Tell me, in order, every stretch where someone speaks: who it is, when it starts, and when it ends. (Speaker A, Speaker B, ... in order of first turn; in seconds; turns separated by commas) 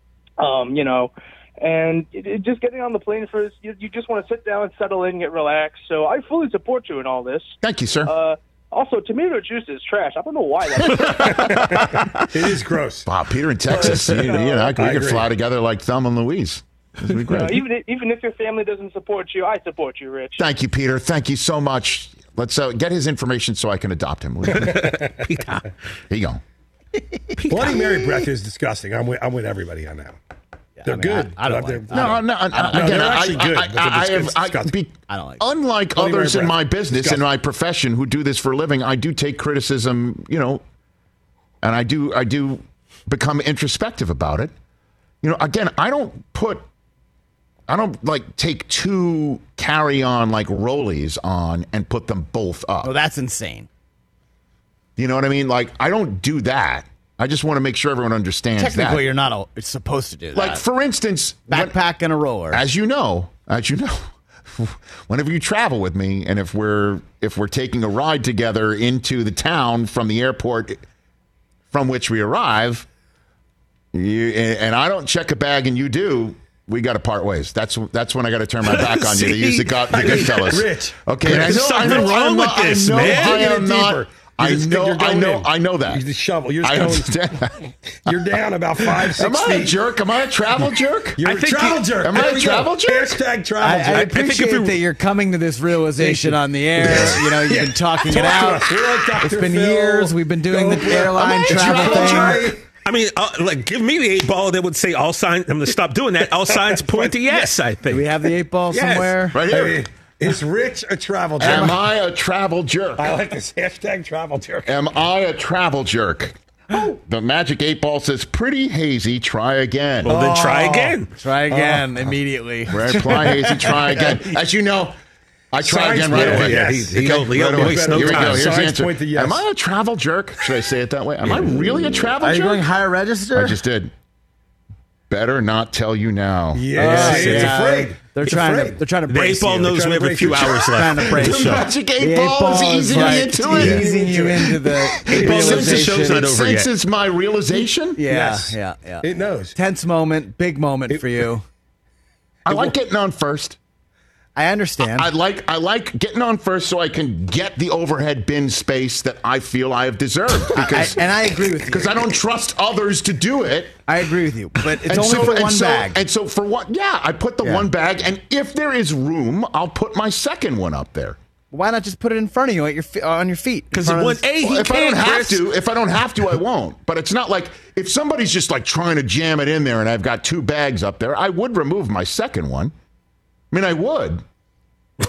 Speaker A: 0.4-11.7, Speaker B: 7.6-8.1, Speaker B: 11.0-12.2, Speaker C: 12.2-13.1, Speaker B: 13.1-17.6, Speaker C: 13.7-15.3, Speaker A: 14.4-14.7, Speaker A: 17.2-20.4, Speaker B: 20.4-25.0, Speaker D: 24.5-25.6, Speaker C: 24.7-25.1, Speaker B: 26.1-26.4, Speaker D: 27.4-28.1, Speaker C: 27.5-30.2, Speaker E: 30.8-33.0, Speaker C: 30.8-34.7, Speaker B: 31.9-40.6, Speaker E: 35.1-35.4, Speaker C: 35.9-37.2, Speaker B: 41.6-44.5, Speaker B: 45.2-46.6, Speaker B: 47.7-52.9, Speaker E: 52.8-53.7, Speaker B: 55.0-59.1, Speaker E: 58.6-60.6, Speaker B: 60.3-61.8, Speaker E: 61.5-62.6, Speaker B: 62.5-70.8, Speaker B: 71.7-72.8, Speaker B: 73.9-86.0, Speaker C: 79.0-82.1, Speaker D: 81.2-83.4, Speaker C: 82.9-87.3, Speaker B: 86.6-88.1, Speaker C: 88.0-89.8, Speaker B: 88.9-93.2, Speaker C: 91.2-94.2, Speaker E: 93.6-102.5, Speaker D: 94.0-94.8, Speaker C: 96.0-102.6, Speaker B: 101.0-102.6, Speaker D: 102.8-108.1, Speaker C: 106.5-107.5, Speaker E: 107.9-109.4, Speaker D: 108.7-109.2, Speaker B: 109.3-109.9, Speaker C: 109.4-111.8, Speaker B: 111.4-113.1, Speaker E: 111.4-111.7, Speaker C: 113.0-114.7, Speaker B: 114.7-120.2, Speaker D: 120.0-121.1, Speaker C: 120.0-122.1, Speaker E: 121.2-124.2, Speaker B: 122.7-125.0, Speaker B: 125.5-132.7, Speaker C: 125.6-129.4, Speaker D: 126.1-128.6, Speaker E: 132.1-133.6, Speaker B: 133.3-133.9, Speaker B: 135.1-137.6, Speaker C: 136.5-138.8, Speaker E: 136.7-139.8, Speaker D: 139.1-141.7, Speaker C: 139.6-140.7, Speaker E: 140.5-146.2, Speaker B: 141.0-143.9, Speaker C: 142.9-144.5, Speaker B: 144.9-148.0, Speaker D: 145.1-146.7, Speaker C: 145.1-145.6, Speaker E: 147.9-151.4, Speaker C: 148.0-149.6, Speaker C: 150.9-151.3, Speaker B: 152.4-153.6, Speaker E: 154.3-155.1, Speaker B: 154.8-163.8, Speaker E: 160.5-161.9, Speaker E: 163.9-166.0, Speaker B: 164.8-171.2, Speaker E: 171.5-174.2, Speaker D: 173.7-175.5, Speaker B: 174.4-182.7, Speaker B: 183.5-184.2